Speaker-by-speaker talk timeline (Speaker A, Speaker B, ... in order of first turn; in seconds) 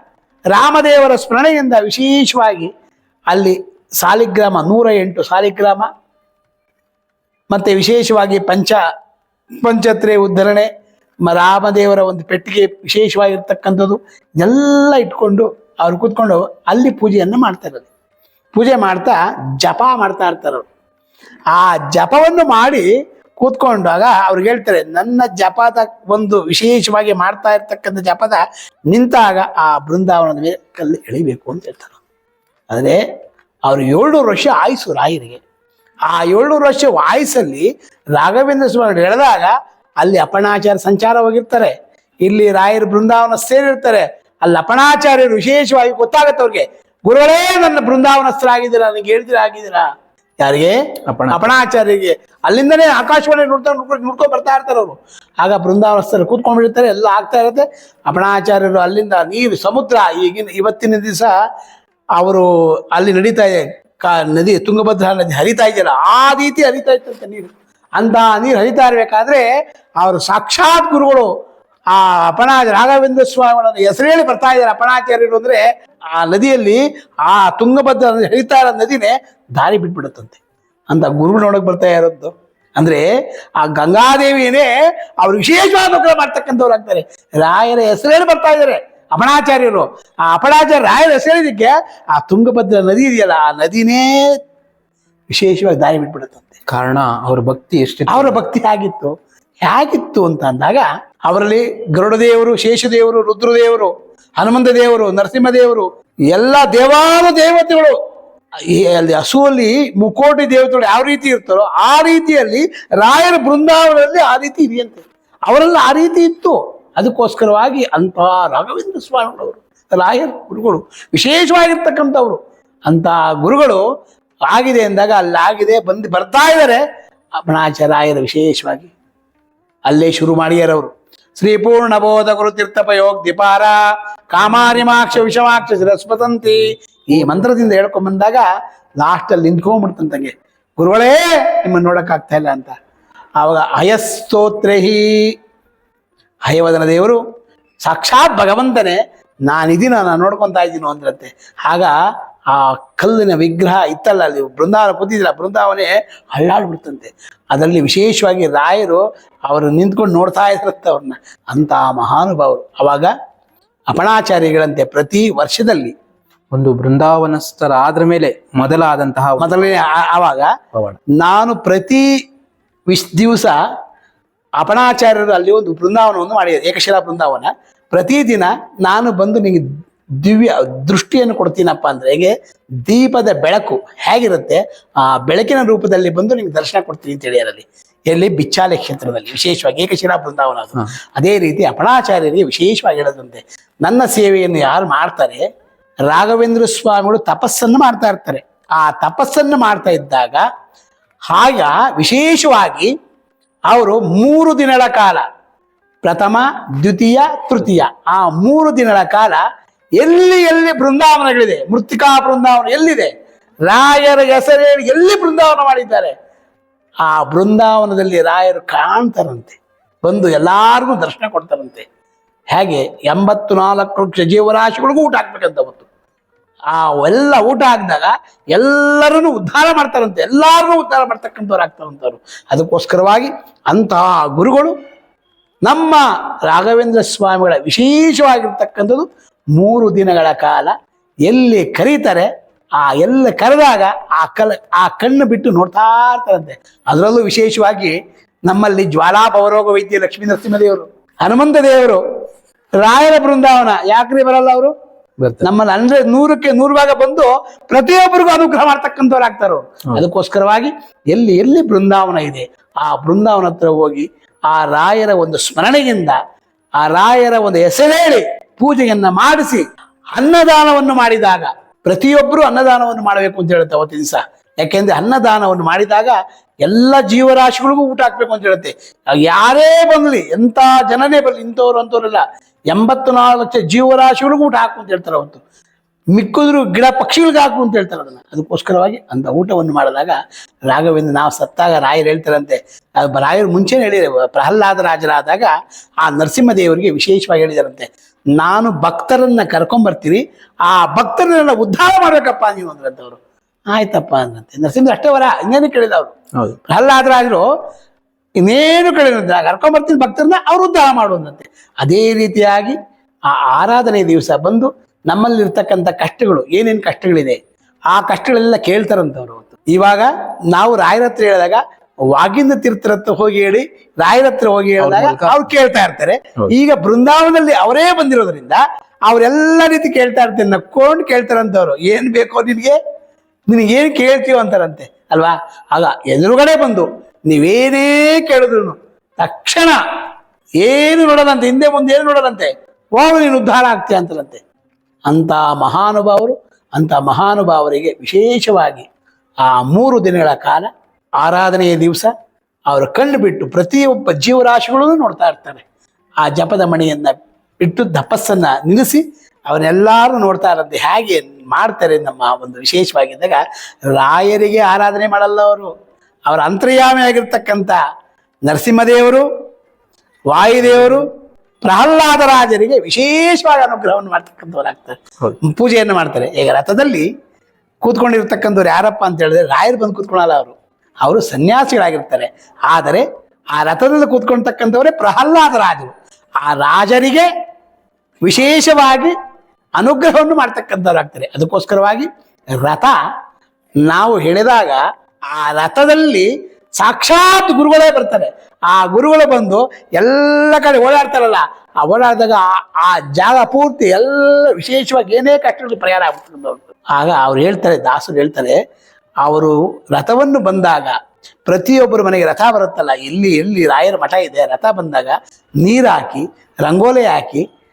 Speaker A: 0.5-2.7, 3.3-5.9, 7.5-8.8, 9.6-10.7, 11.2-17.9, 18.5-20.7, 21.5-22.9, 23.4-32.0, 32.7-33.0, 33.7-35.4, 36.1-49.9, 50.4-50.8, 51.3-61.3, 62.2-69.4, 70.0-71.3, 71.9-75.6, 76.2-80.4, 80.9-83.0, 83.6-94.4, 95.3-96.6, 98.1-99.1, 99.6-107.9, 108.7-123.8, 124.5-126.8, 127.5-128.9, 129.9-133.8, 134.3-138.4, 139.0-142.7, 143.4-145.3, 146.5-147.2, 147.8-151.9, 152.5-163.1, 163.9-165.9, 169.4-170.5, 171.1-172.1, 172.9-173.5, 174.6-179.6, 180.2-182.3, 182.8-195.4, 196.1-200.4, 201.3-202.9, 203.7-205.2, 206.0-209.4, 210.0-213.1, 213.7-216.1, 217.0-221.8, 222.5-225.8, 226.7-234.7, 235.7-240.7, 241.3-252.0, 252.8-254.7, 255.4-266.2, 266.8-285.4, 286.1-290.2, 290.7-295.5, 296.0-303.2, 303.7-306.1, 306.7-307.4, 308.4-312.8, 313.3-317.4, 317.9-321.6, 322.1-332.8, 333.5-339.8, 340.6-344.4, 345.1-348.9, 349.4-350.7, 351.2-352.1, 352.7-355.6, 356.2-365.7, 366.3-367.8, 368.4-369.3, 370.3-371.1, 371.6-377.1, 377.8-387.3, 388.2-389.1, 389.8-392.1, 392.6-392.9, 393.9-394.8, 395.3-408.6, 409.2-410.9, 411.5-417.4
Speaker B: 51.1-51.6, 96.7-98.4, 137.1-137.4, 166.5-169.5, 255.2-255.5, 324.8-325.4, 370.7-371.0